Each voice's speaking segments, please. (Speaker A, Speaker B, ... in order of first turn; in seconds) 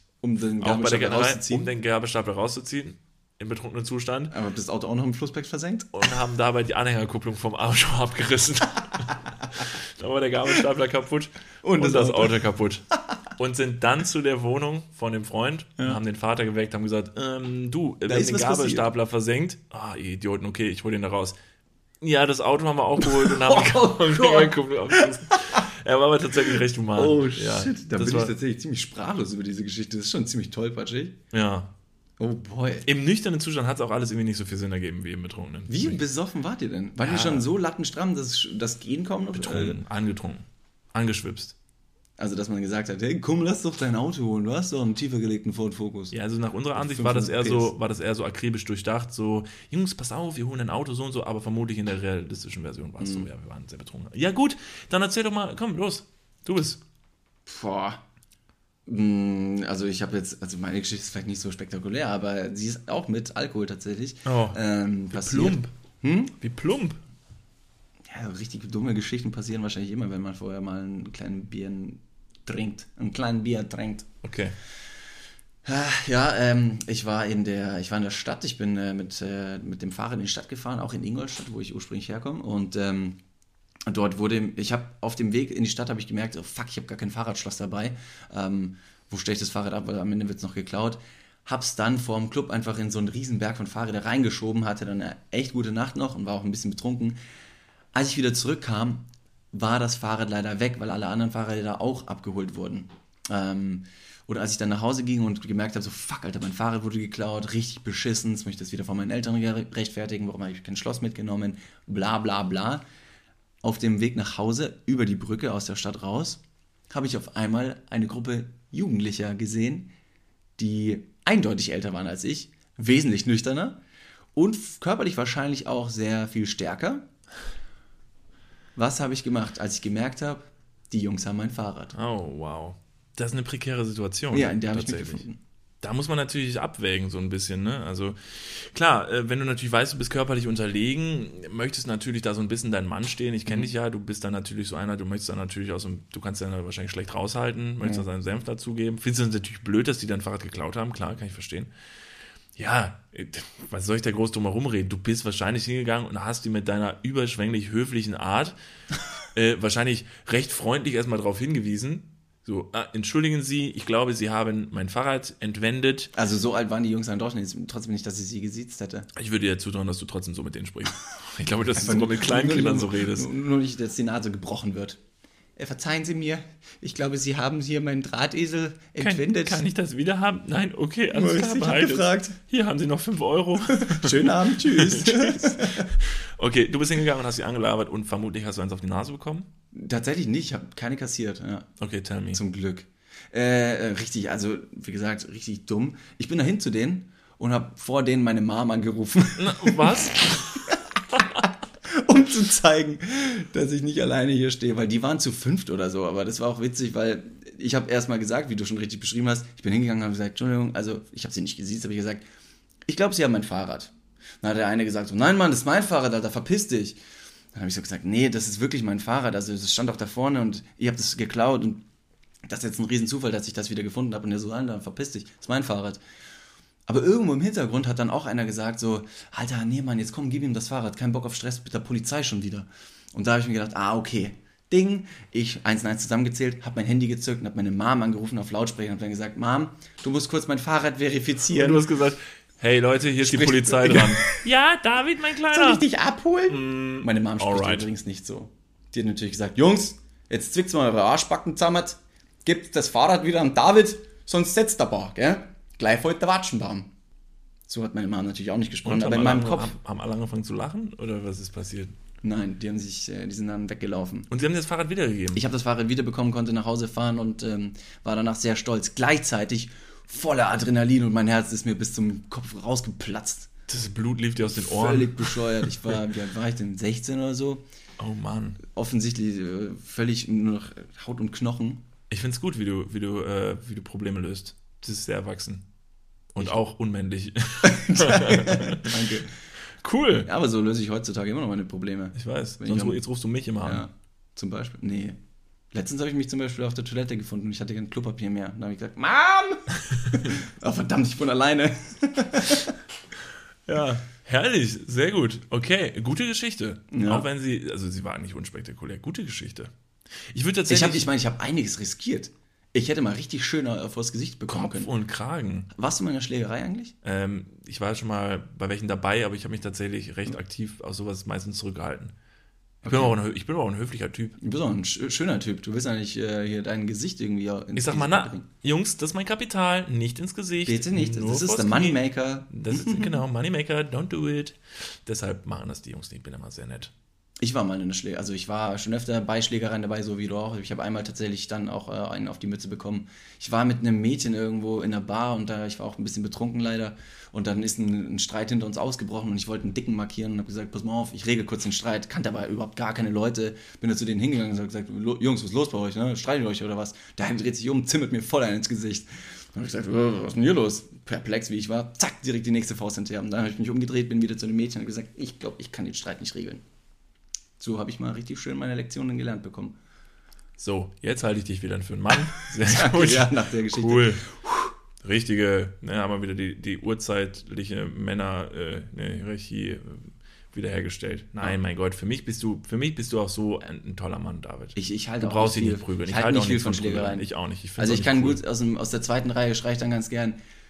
Speaker A: 0.2-1.7, 4.3-6.1, 11.6-12.4, 18.0-18.9, 23.0-25.6, 26.4-31.2, 32.2-32.9, 35.7-39.8, 42.2-46.1, 46.7-47.7, 53.0-53.3, 57.5-58.0, 58.9-66.3, 68.0-74.1, 75.6-83.2, 83.8-97.2, 97.9-112.8, 113.6-119.9, 120.6-123.8, 124.3-127.1, 128.8-131.9, 134.3-135.4, 166.1-169.1, 171.7-175.0, 175.6-179.6, 181.1-182.4, 183.7-185.9, 189.7-191.7, 192.3-200.8, 201.8-212.2, 212.8-217.0, 217.5-221.8, 222.5-226.0, 226.9-241.8, 243.2-244.4, 245.5-256.9, 257.7-259.7, 262.2-264.3, 265.3-273.5, 274.4-277.6, 278.6-281.8, 287.6-289.3, 290.2-293.0, 293.6-295.2, 295.7-302.8, 306.9-307.3, 310.7-314.9, 315.7-316.9, 322.8-323.2, 324.4-328.4, 330.6-333.2, 337.4-366.6, 367.6-369.8, 372.2-374.7, 384.7-390.4
Speaker B: 0.6-4.3, 5.9-12.8, 13.3-21.4, 22.0-28.3, 31.3-31.7, 32.8-36.0, 37.0-37.5, 39.3-41.5, 46.1-56.8, 64.2-64.6, 65.1-65.7, 66.4-67.0, 74.2-74.5, 131.9-135.2, 135.8-151.7, 152.6-158.5, 159.3-166.1, 169.1-173.3, 179.0-189.5, 191.8-192.4, 199.4-201.4, 241.5-245.8, 246.5-247.9, 258.8-261.9, 264.3-265.4, 273.7-276.0, 278.0-278.6, 282.1-285.6, 286.3-289.1, 289.8-290.3, 292.1-293.8, 299.9-300.3, 303.7-309.7, 310.3-311.1, 314.5-315.7, 317.0-322.1, 322.9-324.4, 327.7-336.9, 370.6-374.2, 375.0-388.4